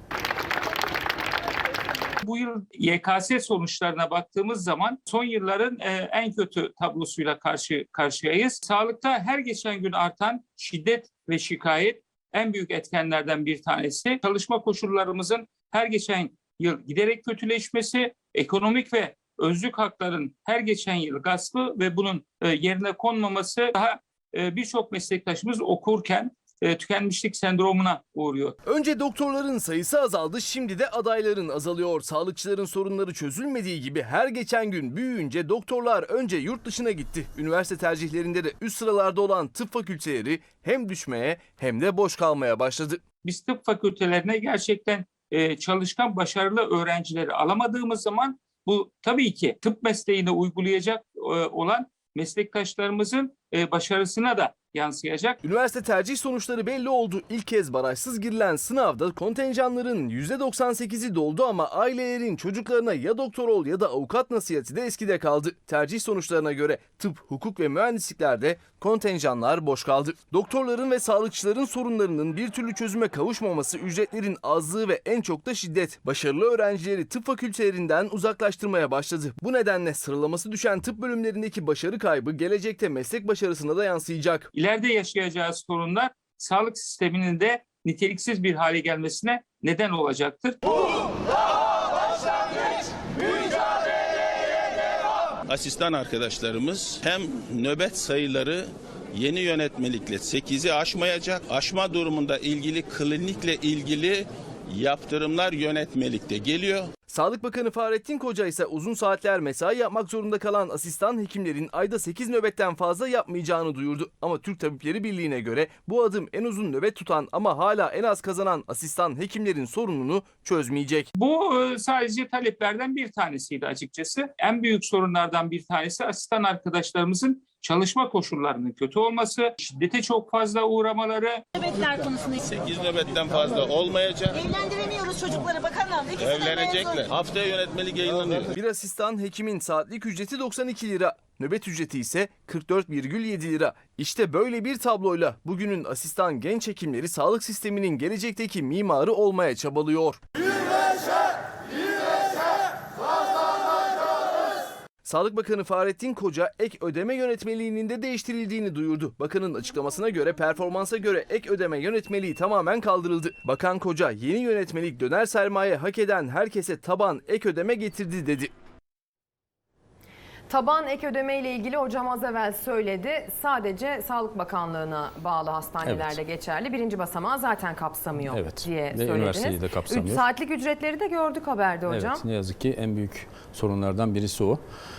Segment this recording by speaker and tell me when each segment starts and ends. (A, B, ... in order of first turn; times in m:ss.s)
0:02.2-0:28.5 A
0:28.6-0:43.0 B
0:43.2-0:55.4 A
0:55.4-1:24.5 B
1:24.5-1:31.1 A
1:35.5-1:46.9 C
1:47.1-2:01.1 B
2:01.2-2:11.4 A
2:11.6-2:12.4 D
2:12.4-2:14.5 C
2:14.3-2:17.0 D
2:16.2-2:18.5 C
2:18.5-2:30.2 B
2:35.0-2:48.5 B
2:50.5-3:02.2 E
2:55.8-2:56.2 F
2:58.3-3:00.2 F
3:01.9-3:04.6 F